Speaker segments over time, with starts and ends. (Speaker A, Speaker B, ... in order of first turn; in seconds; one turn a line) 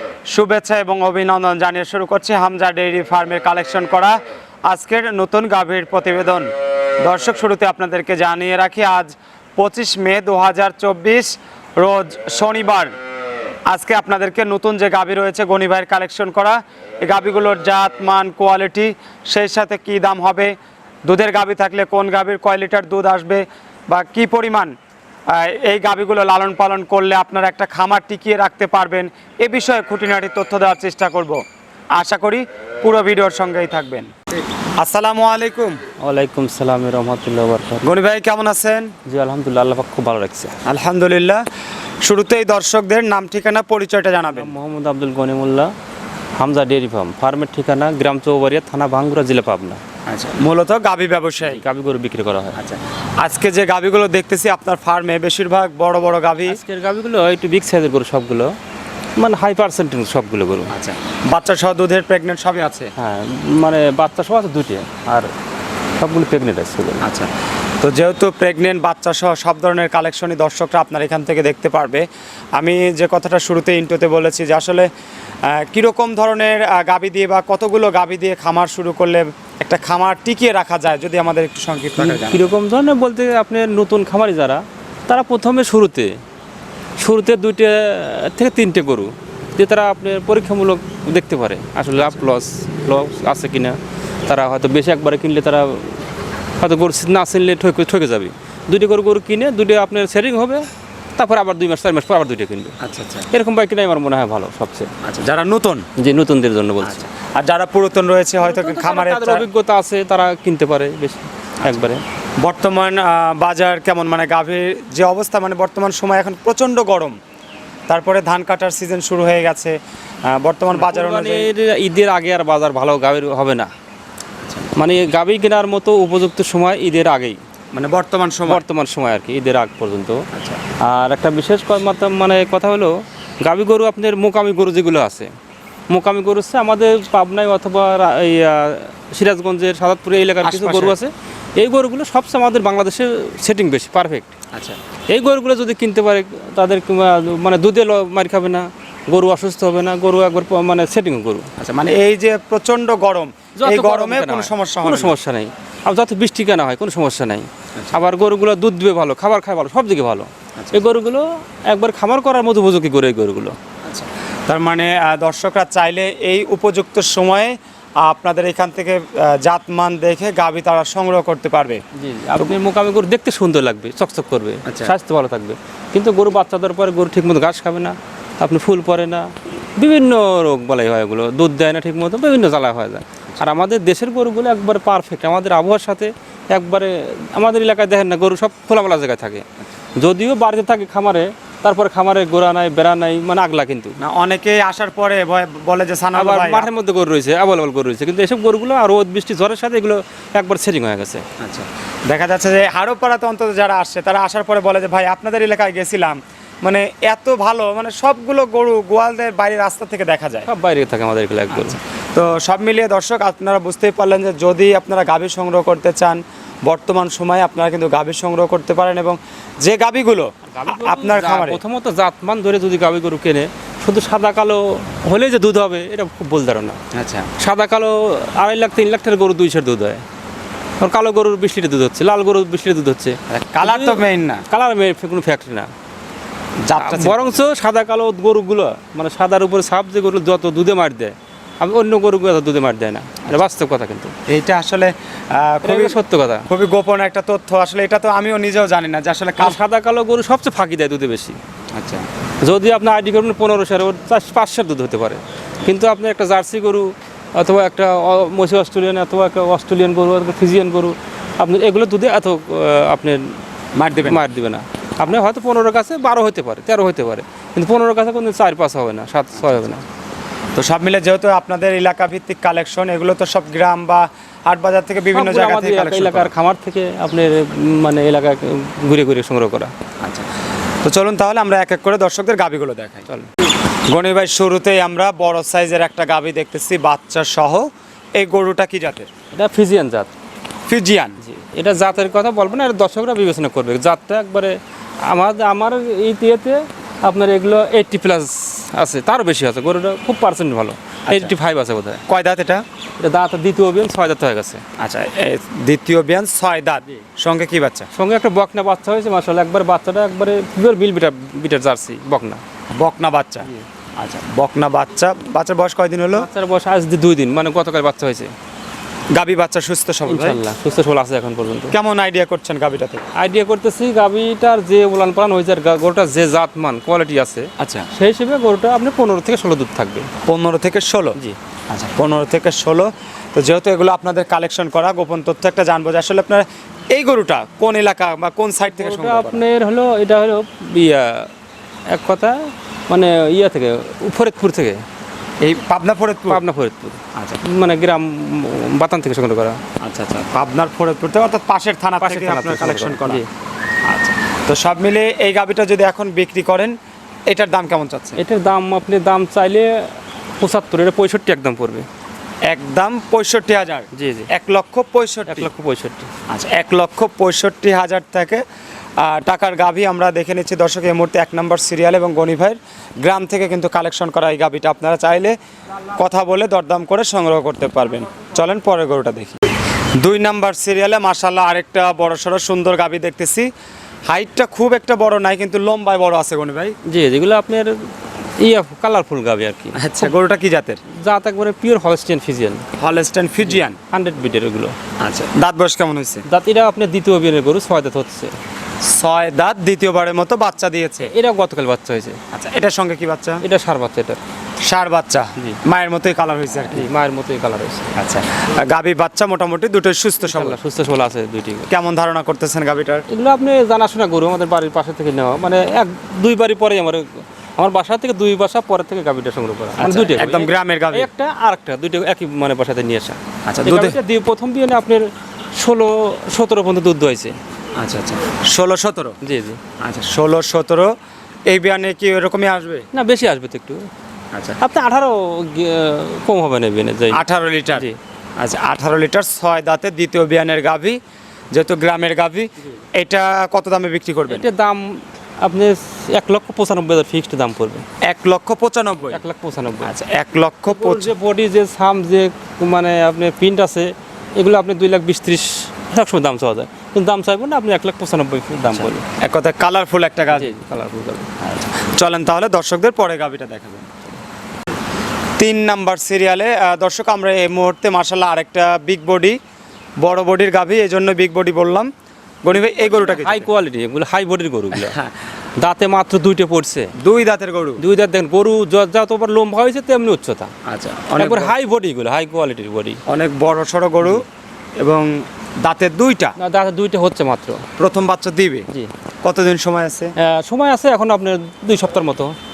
Speaker A: 0.3-6.5
Speaker A: 7.0-12.9
Speaker A: 13.7-20.5
Speaker A: 21.1-24.7
Speaker A: 25.3-31.4
Speaker A: 31.9-34.1
Speaker A: 34.8-35.8
Speaker B: 36.0-37.8
Speaker A: 37.8-38.9
Speaker B: 39.0-40.6
Speaker A: 40.6-41.4
Speaker A: 42.0-44.5
Speaker B: 44.3-45.7
Speaker B: 46.4-49.8
Speaker A: 50.1-51.6
Speaker B: 51.4-52.6
Speaker A: 52.5-56.6
Speaker B: 56.5-58.5
Speaker B: 59.2-60.7
Speaker A: 60.7-62.9
Speaker B: 63.0-65.3
Speaker B: 66.0-67.0
Speaker A: 67.0-67.3
Speaker A: 67.8-72.0
Speaker A: 72.6-74.9
Speaker A: 75.5-82.4
Speaker B: 82.0-86.2
Speaker B: 87.0-96.0
Speaker A: 91.9-92.2
Speaker B: 96.6-102.8
Speaker A: 102.8-103.3
Speaker B: 103.3-104.9
Speaker A: 105.0-105.8
Speaker B: 106.0-107.0
Speaker A: 106.8-109.5
Speaker B: 108.4-112.0
Speaker A: 112.4-117.2
Speaker A: 117.9-121.5
Speaker B: 120.7-123.7
Speaker B: 124.8-127.4
Speaker A: 127.7-128.6
Speaker B: 128.4-130.2
Speaker A: 130.3-130.6
Speaker B: 130.8-135.3
Speaker B: 135.9-144.3
Speaker A: 140.4-141.0
Speaker A: 144.5-144.8
Speaker B: 145.1-151.5
Speaker A: 151.6-155.1
Speaker B: 153.6-163.6
Speaker A: 160.6-160.8
Speaker A: 163.8-171.8
Speaker B: 171.9-189.4
Speaker A: 174.7-174.9
Speaker B: 190.0-194.0
Speaker A: 194.0-196.7
Speaker B: 196.1-201.3
Speaker A: 201.4-210.5
Speaker B: 210.5-211.8
Speaker A: 211.5-221.6
Speaker B: 220.5-226.8
Speaker A: 226.9-227.3
Speaker B: 227.4-230.0
Speaker B: 230.8-235.7
Speaker A: 233.3-234.4
Speaker A: 236.6-237.4
Speaker B: 236.8-244.1
Speaker A: 244.3-249.6
Speaker B: 245.6-246.4
Speaker B: 249.4-251.4
Speaker A: 251.8-252.1
Speaker B: 252.4-263.4
Speaker A: 263.7-264.2
Speaker B: 264.0-269.8
Speaker A: 269.4-269.7
Speaker A: 270.5-276.3
Speaker B: 275.1-279.7
Speaker A: 280.0-280.3
Speaker A: 280.8-283.1
Speaker A: 283.9-289.1
Speaker B: 289.3-290.1
Speaker A: 290.7-291.2
Speaker B: 291.2-302.0
Speaker A: 301.1-301.3
Speaker A: 302.1-302.6
Speaker B: 303.0-304.6
Speaker A: 304.8-307.9
Speaker B: 307.9-312.4
Speaker A: 312.7-316.3
Speaker B: 316.1-318.3
Speaker A: 319.1-320.4
Speaker B: 320.1-321.7
Speaker A: 321.7-323.1
Speaker B: 323.1-330.1
Speaker A: 327.6-327.9
Speaker A: 330.2-331.2
Speaker A: 331.7-339.4
Speaker B: 338.7-341.3
Speaker B: 341.9-344.8
Speaker A: 345.4-346.4
Speaker B: 346.3-349.6
Speaker A: 347.1-347.4
Speaker A: 349.8-353.2
Speaker B: 352.0-353.3
Speaker A: 353.9-356.8
Speaker A: 357.3-358.2
Speaker B: 358.2-361.9
Speaker A: 362.5-365.5
Speaker B: 363.9-364.3
Speaker B: 365.3-366.1
Speaker A: 366.3-368.4
Speaker A: 369.0-375.4
Speaker A: 375.9-379.4
Speaker A: 380.0-383.5
Speaker A: 384.1-386.8
Speaker B: 386.9-390.1
Speaker A: 389.8-390.8
Speaker B: 390.9-392.7
Speaker A: 392.8-393.8
Speaker B: 393.4-394.8
Speaker A: 395.0-396.2
Speaker B: 396.2-398.3
Speaker A: 398.8-401.1
Speaker B: 401.0-402.2
Speaker A: 402.3-403.4
Speaker B: 403.4-404.2
Speaker A: 404.6-406.9
Speaker B: 406.7-407.9
Speaker A: 407.9-410.6
Speaker B: 410.2-411.7
Speaker A: 411.7-413.0
Speaker B: 413.1-427.4
Speaker A: 419.8-421.1
Speaker A: 423.5-424.0
Speaker A: 427.8-429.2
Speaker B: 429.2-429.6
Speaker A: 429.8-430.9
Speaker A: 431.5-432.9
Speaker B: 432.9-433.9
Speaker A: 434.3-434.6
Speaker B: 434.6-438.0
Speaker A: 437.1-437.9
Speaker A: 438.4-441.0
Speaker A: 441.5-444.5
Speaker B: 444.3-447.8
Speaker A: 448.1-449.2
Speaker B: 449.1-449.9
Speaker A: 449.8-451.1
Speaker B: 450.7-459.1
Speaker A: 458.7-460.5
Speaker B: 460.3-461.3
Speaker A: 461.4-463.9
Speaker A: 465.4-469.4
Speaker A: 470.0-471.9
Speaker A: 472.4-473.5
Speaker B: 472.8-475.0
Speaker A: 474.7-475.1
Speaker B: 475.6-476.9
Speaker A: 477.0-477.8
Speaker B: 477.8-480.5
Speaker A: 480.6-481.5
Speaker B: 481.2-483.0
Speaker A: 483.1-484.2
Speaker A: 484.8-486.3
Speaker B: 486.4-487.6
Speaker A: 487.8-488.7
Speaker A: 489.2-490.1
Speaker B: 490.2-492.3